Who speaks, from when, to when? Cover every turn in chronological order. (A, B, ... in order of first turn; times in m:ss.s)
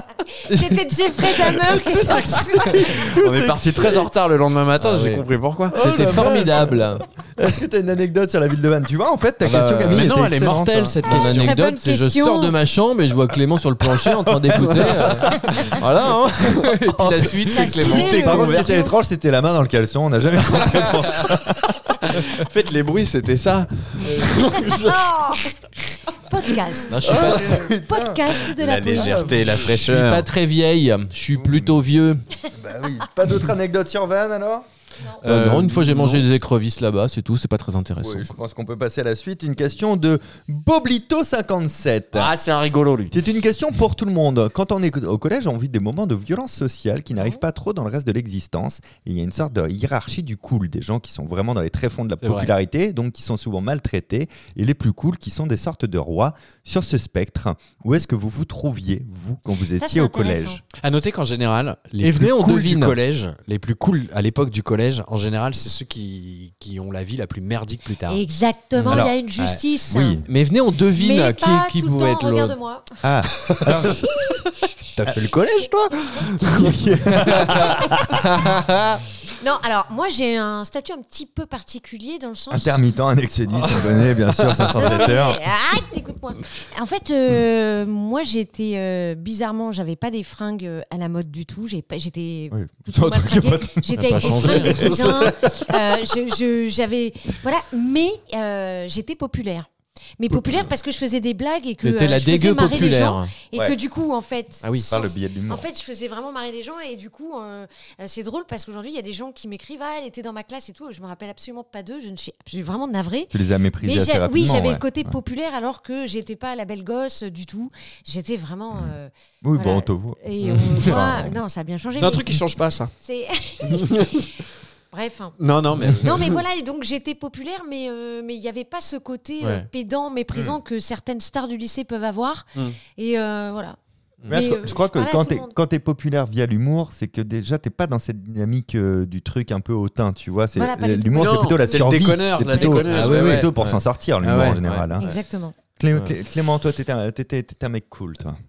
0:00.4-0:02.9 A
0:01.5-0:05.8 B
0:01.7-0:04.1 C
0:04.8-0:07.0 D
0:05.7-0:11.5 C
0:09.4-0:11.6 B
0:11.0-0:18.4 D
0:11.4-0:12.5 A
0:14.5-0:15.0 C
0:14.5-0:15.8 B
0:16.9-0:22.2 C
0:17.5-0:18.9 A
0:17.6-0:18.7 B
0:22.0-0:25.6 B
0:24.5-0:25.5 A
0:26.3-0:29.4 A
0:26.5-0:27.3 B
0:26.9-0:27.5 D
0:27.0-0:29.8 C
0:28.6-0:30.3 B
0:29.4-0:32.2 D
0:31.3-0:31.8 C
0:32.5-0:34.6 C
0:35.2-0:36.2 C
0:35.2-0:36.2 B
0:35.2-0:38.4 D
0:38.0-0:42.3 C
0:42.1-0:43.2 B
0:43.1-1:00.6 C
0:52.2-0:52.5 B
0:59.7-1:00.6 A
1:00.8-1:08.2 B
1:02.0-1:03.0 D
1:08.1-1:10.2 A
1:08.8-1:09.6 B
1:08.9-1:09.1 C
1:09.9-1:10.2 C
1:10.3-1:12.6 D
1:10.9-1:12.8 A
1:13.0-1:14.1 C
1:13.5-1:14.3 B
1:14.9-1:17.9 B
1:16.4-1:18.2 C
1:18.4-1:18.9 D
1:19.4-1:22.8 A
1:22.5-1:25.4 C
1:23.5-1:25.1 B
1:24.8-1:39.7 A
1:32.5-1:35.2 C
1:34.0-1:35.1 D
1:34.6-1:35.7 B
1:40.2-2:02.3 A
1:41.8-1:43.3 D
1:44.6-1:44.9 D
1:44.9-1:45.6 C
1:53.3-1:55.2 C
1:58.7-2:01.4 C
2:02.0-2:02.9 B
2:03.0-2:04.2 A
2:03.6-2:04.4 B
2:04.9-2:13.8 A
2:05.4-2:06.4 B
2:14.3-2:25.1 C
2:14.3-2:15.6 A
2:20.5-2:22.9 A
2:21.1-2:24.6 B
2:22.9-2:23.8 D
2:24.6-2:25.2 D
2:25.0-2:25.5 A
2:25.8-2:28.4 C